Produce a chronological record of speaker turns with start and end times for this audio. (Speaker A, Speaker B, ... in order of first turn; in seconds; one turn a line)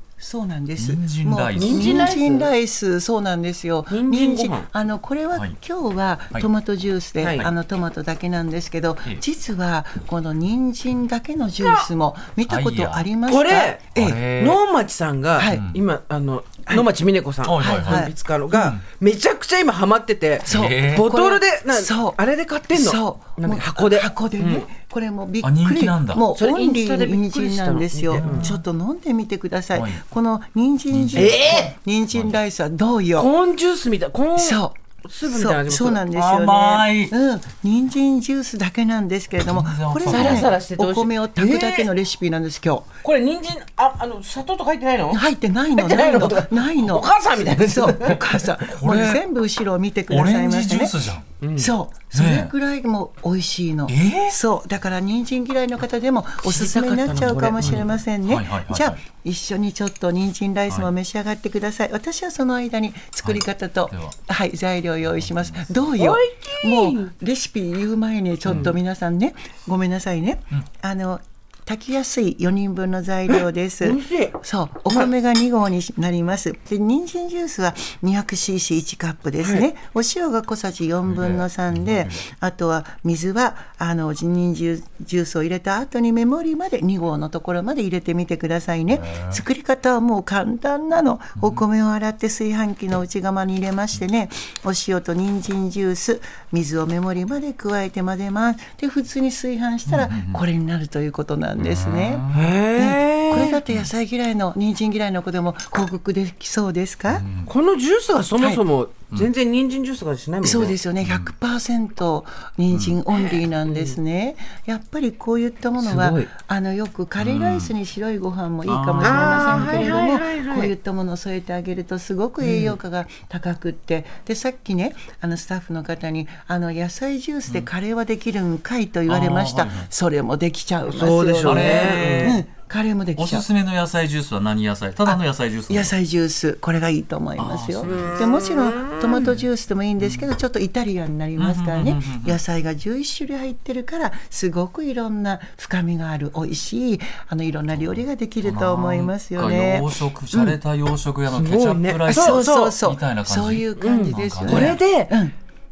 Speaker A: 0.2-14.3
Speaker B: 0.8-2.1
Speaker C: 1.5-2.5
Speaker C: 3.9-4.7
Speaker C: 7.2-7.5
Speaker C: 11.6-11.9
Speaker B: 12.5-13.1
Speaker C: 13.3-13.8
Speaker B: 13.9-14.6
Speaker C: 14.4-24.7
Speaker A: 15.4-15.6
Speaker B: 15.4-15.8
Speaker A: 16.7-16.9
Speaker B: 17.4-18.8
Speaker A: 17.6-18.6
Speaker B: 20.4-21.1
Speaker A: 20.4-22.2
Speaker A: 22.7-33.3
Speaker B: 25.4-26.2
Speaker C: 26.3-28.5
Speaker B: 28.1-28.6
Speaker B: 29.7-30.0
Speaker B: 30.9-32.4
Speaker C: 31.1-31.7
Speaker C: 33.1-36.0
Speaker A: 34.4-42.9
Speaker B: 36.1-37.1
Speaker B: 39.4-40.5
Speaker C: 40.0-41.9
Speaker C: 43.0-45.2
Speaker A: 45.1-51.0
Speaker C: 45.7-48.2
Speaker B: 48.1-49.2
Speaker B: 50.1-51.3
Speaker C: 51.4-51.7
Speaker A: 51.5-107.3
Speaker B: 52.1-52.5
Speaker B: 53.9-54.4
Speaker C: 56.4-57.9
Speaker B: 58.2-59.0
Speaker B: 63.2-64.2
Speaker B: 65.0-65.9
Speaker C: 66.0-67.1
Speaker B: 68.4-68.7
Speaker C: 73.3-74.3
Speaker C: 79.4-79.7
Speaker B: 81.0-82.2
Speaker B: 88.9-89.4
Speaker B: 91.3-91.6
Speaker B: 99.9-100.4
Speaker B: 101.5-102.5
Speaker C: 102.3-103.6
Speaker B: 103.3-103.9
Speaker B: 107.1-107.5
Speaker C: 107.5-110.8
Speaker A: 110.4-133.5
Speaker B: 111.0-111.3
Speaker B: 112.7-113.0
Speaker C: 113.1-114.0
Speaker C: 115.8-116.3
Speaker B: 117.2-117.7
Speaker B: 118.6-120.0
Speaker C: 119.0-120.7
Speaker C: 122.4-122.8
Speaker B: 129.1-129.9
Speaker C: 130.9-132.4
Speaker B: 131.4-132.4
Speaker B: 133.2-135.9
Speaker A: 135.0-150.6
Speaker B: 137.4-138.3
Speaker C: 137.8-139.3
Speaker B: 139.1-139.5
Speaker B: 140.0-140.3
Speaker B: 141.4-142.4
Speaker B: 147.7-154.8
Speaker C: 151.3-152.8
Speaker A: 152.1-155.3
Speaker C: 153.8-155.2